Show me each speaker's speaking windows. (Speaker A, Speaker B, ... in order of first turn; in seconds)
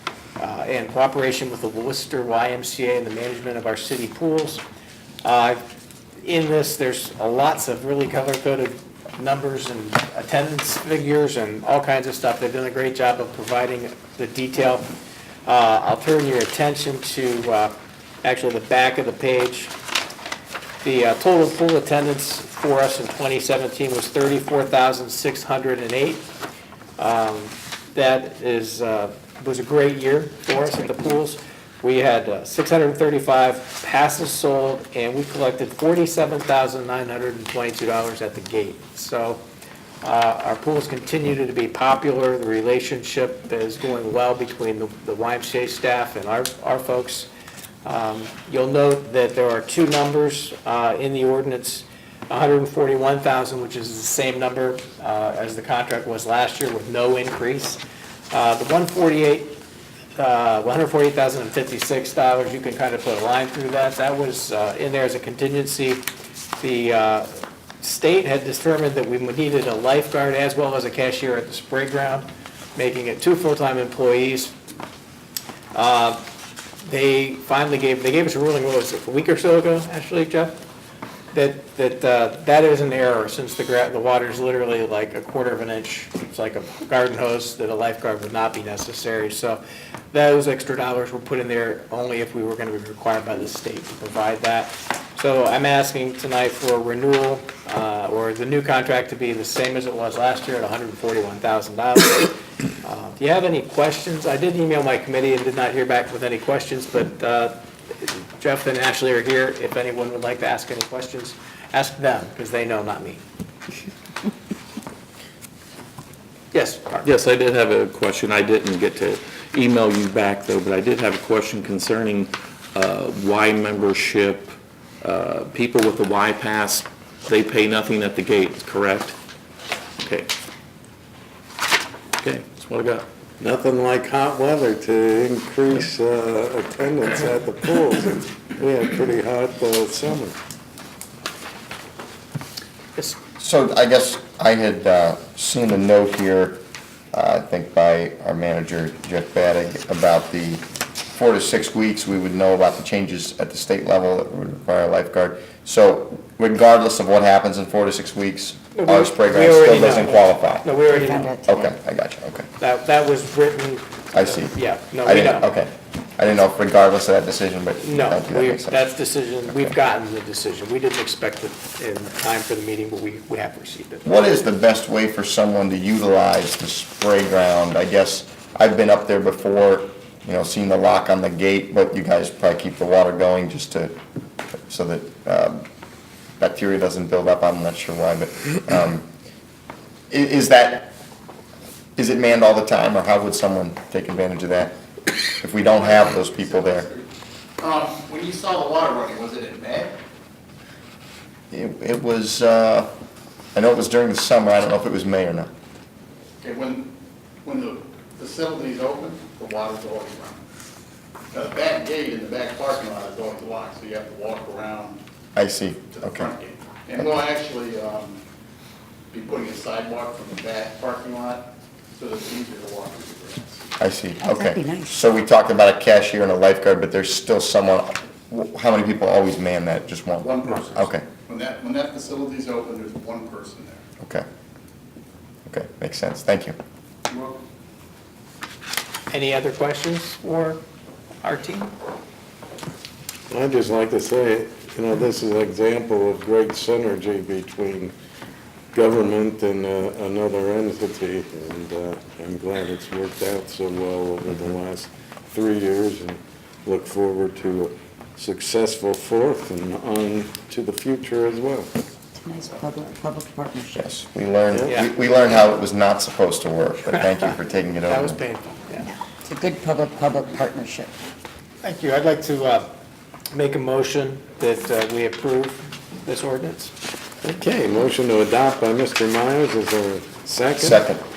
Speaker A: 0.4-4.6, 5.2-5.6, 6.2-14.9, 15.4-19.7, 20.8-26.3, 27.0-39.4, 40.0-47.3, 47.8-59.6, 60.2-66.0, 66.6-67.3, 67.8-74.5, 75.7-76.2, 76.8-80.6, 81.3-113.2, 116.5-117.1, 158.7-161.4, 162.6-165.5, 167.8-174.1, 239.1-240.6, 241.2-241.7, 264.6-264.9, 267.9-268.9, 271.6-272.7, 273.3-276.7
Speaker B: 117.0-129.2, 130.0-130.3, 132.2-133.1
Speaker C: 133.4-140.4, 243.3-247.9, 248.7-261.7, 277.2-280.8
Speaker D: 143.4-146.6, 147.1-160.7, 161.4-162.5, 164.1-168.8, 174.0-183.9, 184.6-185.6, 186.4-189.1, 190.1-190.9, 191.9-194.8, 195.4-196.9, 201.5-202.9, 203.5-205.5, 215.3-216.3, 223.8-231.1, 234.0-234.2, 235.5-236.6, 263.7-268.2, 280.6-281.0
Speaker E: 160.8-161.7, 224.2-225.0, 262.2-263.8, 269.2-270.9
Speaker F: 195.6-199.9, 206.4-206.9, 207.4-210.4, 211.3-215.0, 215.9-218.2, 219.1-223.7, 230.2-233.8, 237.1-237.4